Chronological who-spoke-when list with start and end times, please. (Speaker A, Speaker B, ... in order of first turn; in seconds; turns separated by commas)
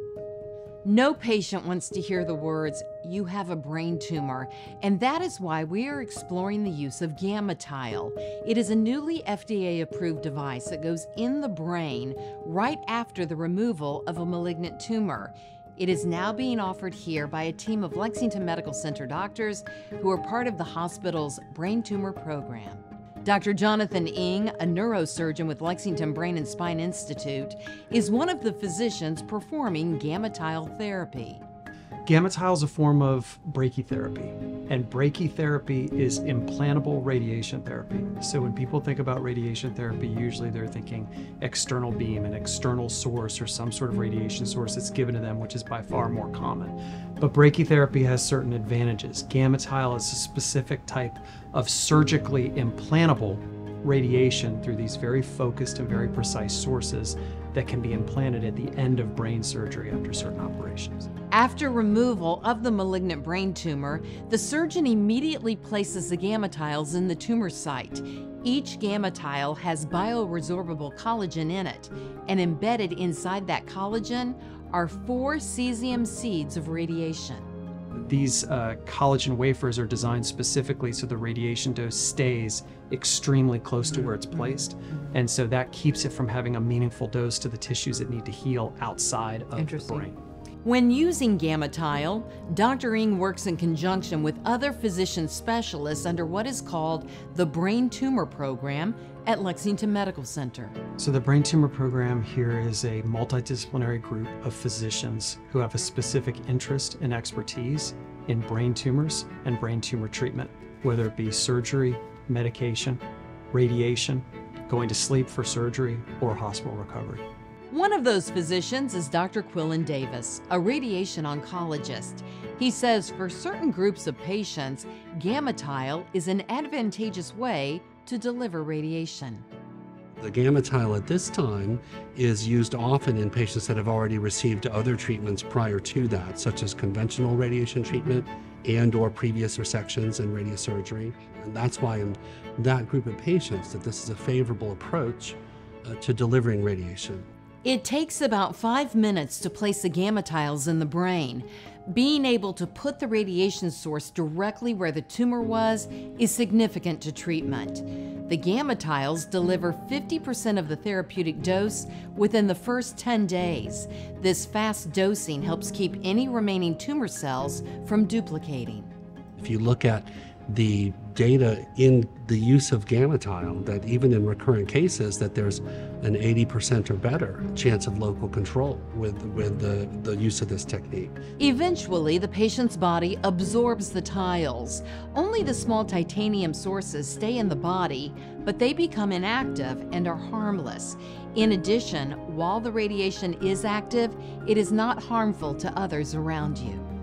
Speaker A: 0.8-31.4, Speaker B: 32.1-61.1, Speaker A: 61.3-77.5, Speaker B: 78.0-90.2, Speaker A: 89.6-90.1, Speaker A: 90.6-100.8, Speaker B: 101.0-113.0, Speaker B: 113.5-117.2, Speaker A: 117.7-129.4, Speaker C: 130.2-147.3, Speaker A: 147.6-168.9, Speaker C: 169.4-181.2, Speaker A: 181.4-196.8